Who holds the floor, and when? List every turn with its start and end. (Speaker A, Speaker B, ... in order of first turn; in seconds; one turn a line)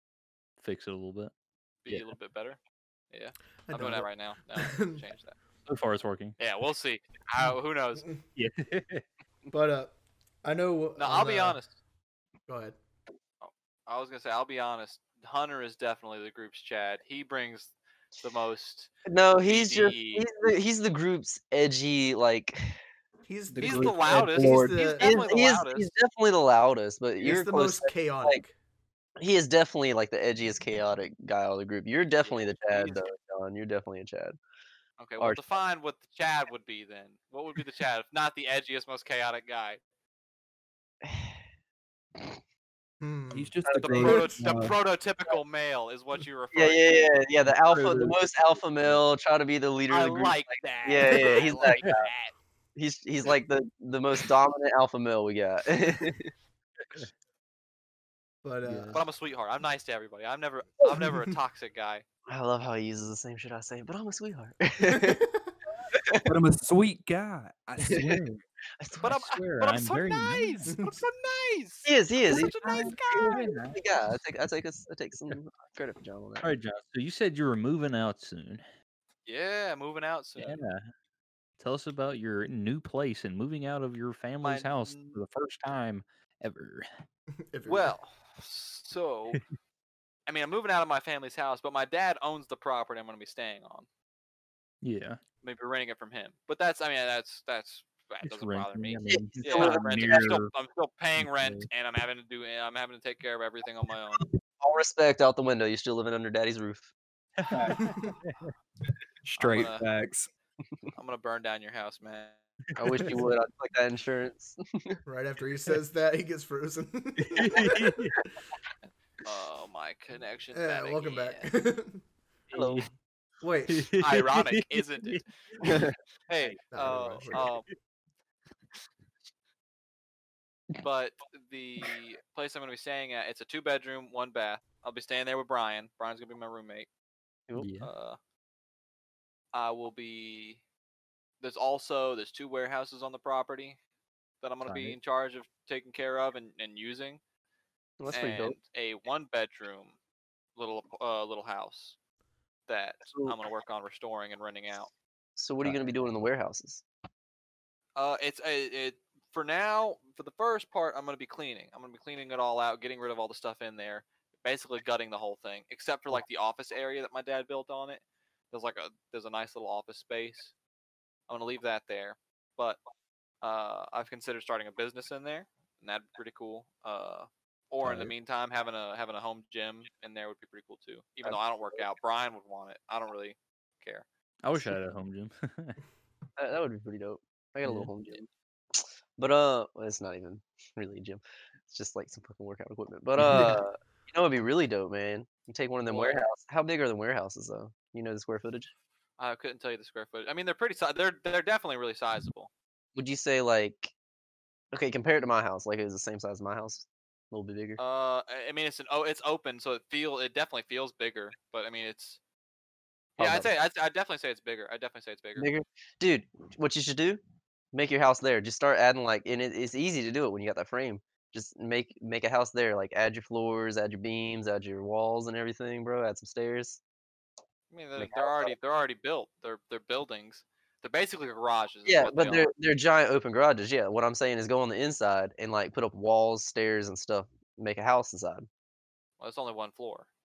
Speaker A: 0.6-1.3
Speaker B: 1.8-2.6
Speaker B: 3.1-5.3
Speaker C: 3.7-5.0
Speaker A: 5.7-6.4
Speaker B: 6.4-8.0
Speaker A: 8.3-9.0
Speaker C: 9.5-11.6
Speaker B: 11.0-11.7
Speaker C: 12.5-12.8
Speaker B: 13.4-20.2
Speaker D: 19.1-22.8
Speaker C: 23.3-25.1
Speaker E: 23.5-24.9
Speaker B: 23.6-25.9
Speaker D: 25.0-28.4
Speaker C: 27.2-28.5
Speaker D: 29.2-34.4
Speaker B: 32.2-33.1
Speaker B: 35.0-39.8
Speaker D: 41.0-41.4
Speaker C: 43.0-43.5
Speaker E: 43.3-44.7
Speaker D: 43.6-44.3
Speaker B: 43.9-47.1
Speaker D: 46.5-52.1
Speaker A: 47.5-48.2
Speaker B: 49.9-52.3
Speaker D: 52.7-56.3
Speaker C: 58.4-59.0
Speaker B: 58.9-62.0
Speaker D: 62.3-65.2
Speaker C: 64.9-65.5
Speaker D: 65.9-66.3
Speaker E: 66.2-68.2
Speaker D: 67.8-68.2
Speaker A: 67.9-68.4
Speaker D: 68.8-69.1
Speaker B: 69.0-73.4
Speaker A: 69.0-70.7
Speaker C: 70.7-71.0
Speaker D: 71.8-76.5
Speaker A: 72.3-73.8
Speaker A: 76.4-78.6
Speaker B: 79.2-80.6
Speaker A: 80.3-80.9
Speaker A: 81.6-86.8
Speaker B: 84.4-85.2
Speaker C: 87.5-87.9
Speaker B: 87.7-89.4
Speaker B: 90.3-93.8
Speaker A: 94.8-95.2
Speaker B: 95.4-104.2
Speaker A: 98.2-100.5
Speaker D: 99.1-100.2
Speaker A: 101.2-101.7
Speaker D: 104.2-106.9
Speaker A: 107.4-108.5
Speaker E: 107.5-107.8
Speaker C: 107.7-108.1
Speaker E: 109.2-110.3
Speaker B: 109.4-109.8
Speaker B: 110.9-112.4
Speaker A: 112.7-113.3
Speaker D: 112.8-115.0
Speaker C: 115.0-117.9
Speaker A: 117.3-118.1
Speaker B: 119.2-121.5
Speaker C: 120.5-122.0
Speaker A: 122.5-122.9
Speaker D: 122.5-122.9
Speaker C: 123.4-123.9
Speaker A: 123.7-125.8
Speaker B: 124.0-125.2
Speaker D: 125.6-126.0
Speaker B: 126.3-127.7
Speaker C: 126.7-127.5
Speaker A: 127.3-127.6
Speaker B: 130.8-136.9
Speaker A: 137.6-137.9
Speaker B: 137.8-138.2
Speaker B: 139.5-140.6
Speaker B: 141.4-143.8
Speaker B: 144.4-147.2
Speaker A: 144.6-145.0
Speaker D: 148.0-148.6
Speaker B: 148.1-149.9
Speaker B: 150.6-151.9
Speaker B: 152.7-154.9
Speaker D: 153.1-153.4
Speaker D: 155.4-156.8
Speaker A: 155.6-155.9
Speaker B: 157.9-170.5
Speaker B: 171.3-172.8
Speaker B: 173.4-184.0
Speaker A: 177.8-178.1
Speaker D: 181.2-181.8
Speaker A: 184.4-185.8
Speaker D: 186.4-198.7
Speaker A: 187.6-187.9
Speaker A: 193.2-193.5
Speaker B: 195.8-196.2
Speaker B: 199.2-202.5
Speaker D: 202.9-203.9
Speaker D: 204.7-207.8
Speaker B: 207.8-212.2
Speaker D: 213.2-213.5
Speaker B: 213.2-215.5
Speaker D: 215.4-217.2
Speaker D: 217.7-226.8
Speaker B: 227.7-232.5
Speaker D: 228.0-228.5
Speaker D: 231.8-238.5
Speaker B: 239.2-240.1